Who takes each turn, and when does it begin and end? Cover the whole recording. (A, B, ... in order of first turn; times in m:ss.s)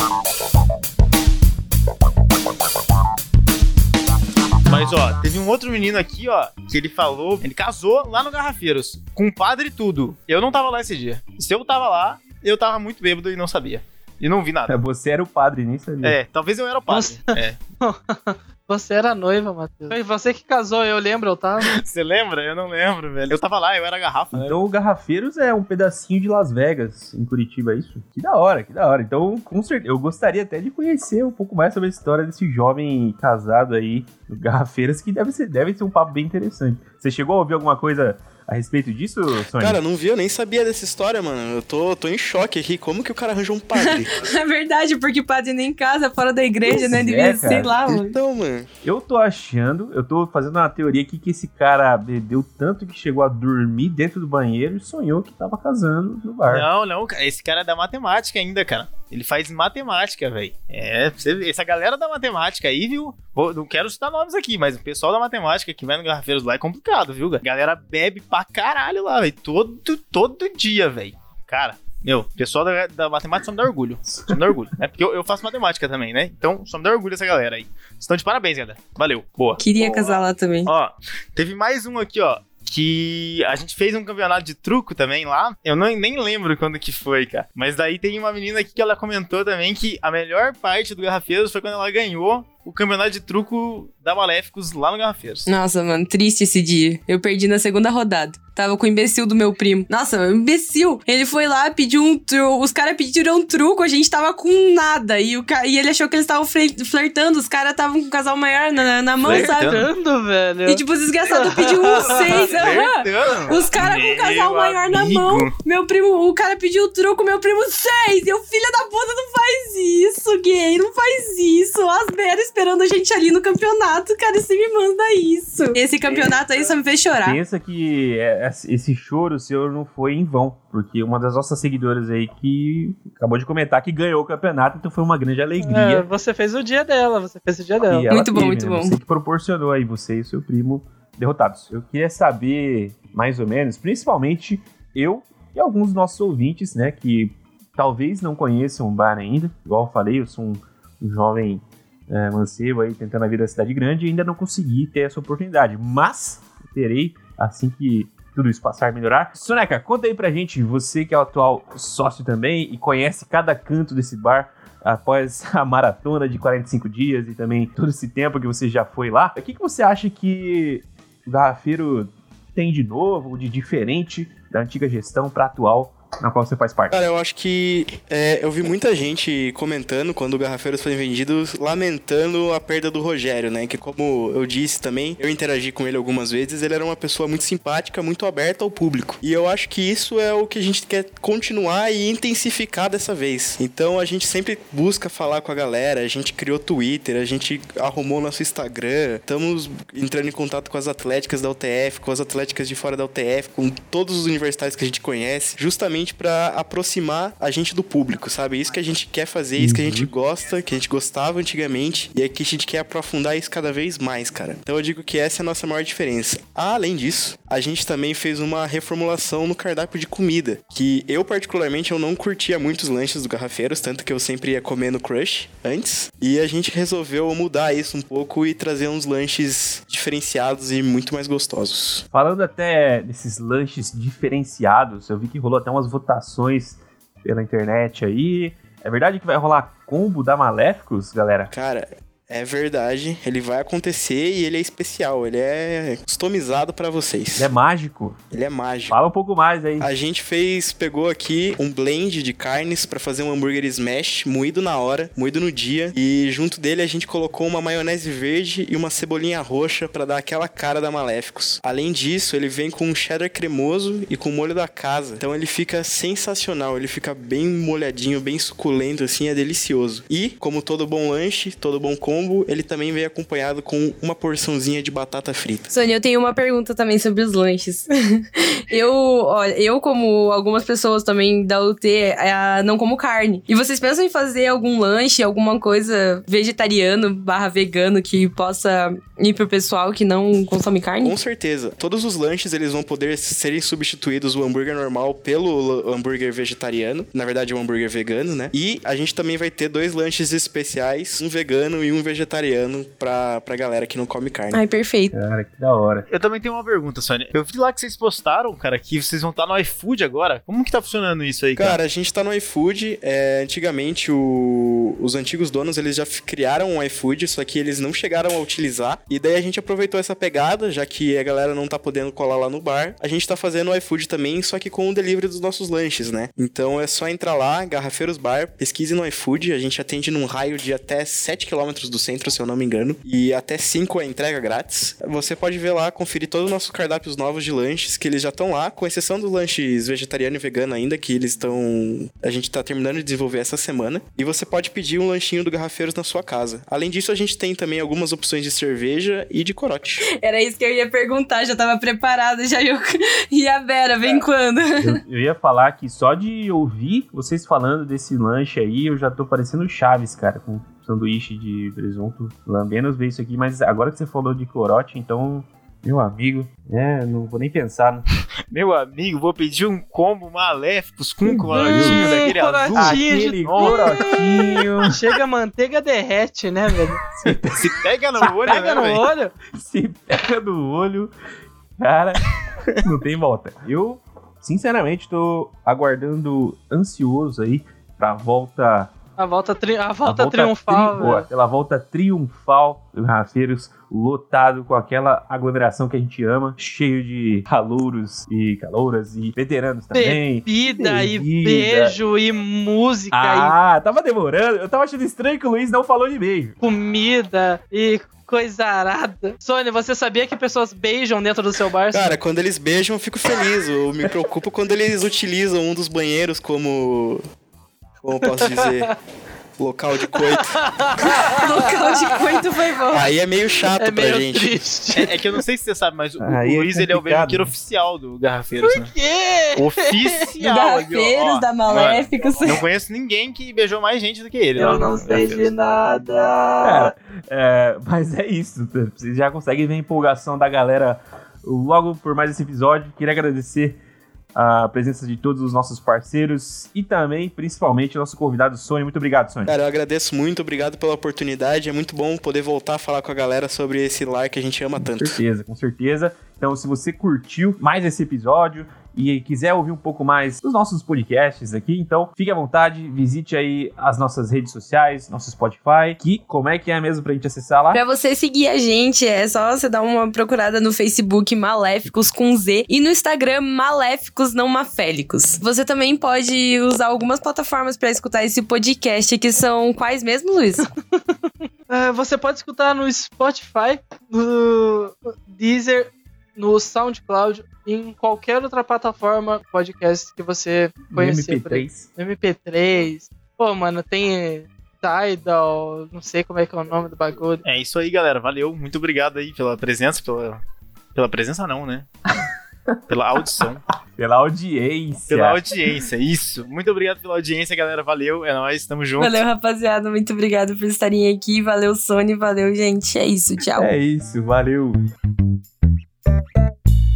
0:04.7-0:14.8 A
0:14.7-0:16.2 B
0:16.0-0:17.6 A
0:16.9-0:21.8 C
0:21.6-0:24.6 A
0:24.3-0:39.8 B
0:39.6-0:44.1 D
0:43.8-0:48.2 E
0:46.7-0:47.7 B
0:47.9-0:48.7 D
0:48.8-0:56.7 B
0:56.5-1:35.5 A
1:19.6-1:20.7 E
1:35.5-1:49.8 E
1:49.2-1:49.9 A
1:49.2-1:52.5 C
1:50.6-2:07.4 E
1:52.0-1:55.5 A
2:07.2-2:16.1 B
2:15.6-2:18.1 C
2:17.9-2:57.0 B
2:18.1-2:19.0 E
2:56.9-3:52.0 D
3:29.6-3:30.1 B
3:52.1-4:01.5 B
4:01.5-4:07.5 D
4:07.4-4:08.2 B
4:08.3-4:09.0 D
4:08.9-4:09.9 B
4:09.8-4:35.7 D
4:35.7-4:51.2 E
4:51.0-5:04.6 D
5:04.5-5:05.1 E
5:05.1-5:06.1 B
5:06.1-5:11.8 A
5:11.6-5:50.0 D
5:50.1-5:55.0 E
5:54.8-6:08.0 B
6:08.5-6:14.2 A
6:11.2-6:15.0 B
6:11.5-6:17.0 C
6:17.2-6:18.3 B
6:17.6-6:19.1 A
6:18.5-6:19.3 C
6:19.5-6:21.1 B
6:21.8-6:28.9 B
6:29.2-6:31.3 C
6:30.0-6:42.0 B
6:39.9-6:43.6 C
6:43.1-6:46.6 B
6:46.6-6:52.2 C
6:51.9-6:57.2 D
6:58.0-6:58.9 D
6:58.2-6:59.0 C
6:59.6-7:00.6 D
7:00.1-7:02.2 C
7:01.0-7:03.1 E
7:02.9-7:04.6 D
7:03.8-7:05.3 C
7:04.9-7:08.9 A
7:06.2-7:07.5 B
7:08.6-7:10.2 C
7:09.6-7:15.4 A
7:10.4-7:12.6 E
7:14.6-7:16.9 C
7:16.6-7:23.8 B
7:24.4-7:29.5 B
7:29.5-7:35.2 D
7:34.8-7:47.8 B
7:47.7-8:00.7 E
8:01.7-8:17.4 C
8:10.9-8:11.9 B
8:17.4-8:20.4 A
8:21.0-8:21.9 A
8:22.9-8:23.6 A
8:24.0-8:25.4 B
8:25.1-8:29.2 A
8:29.0-8:33.7 E
8:33.6-8:34.8 B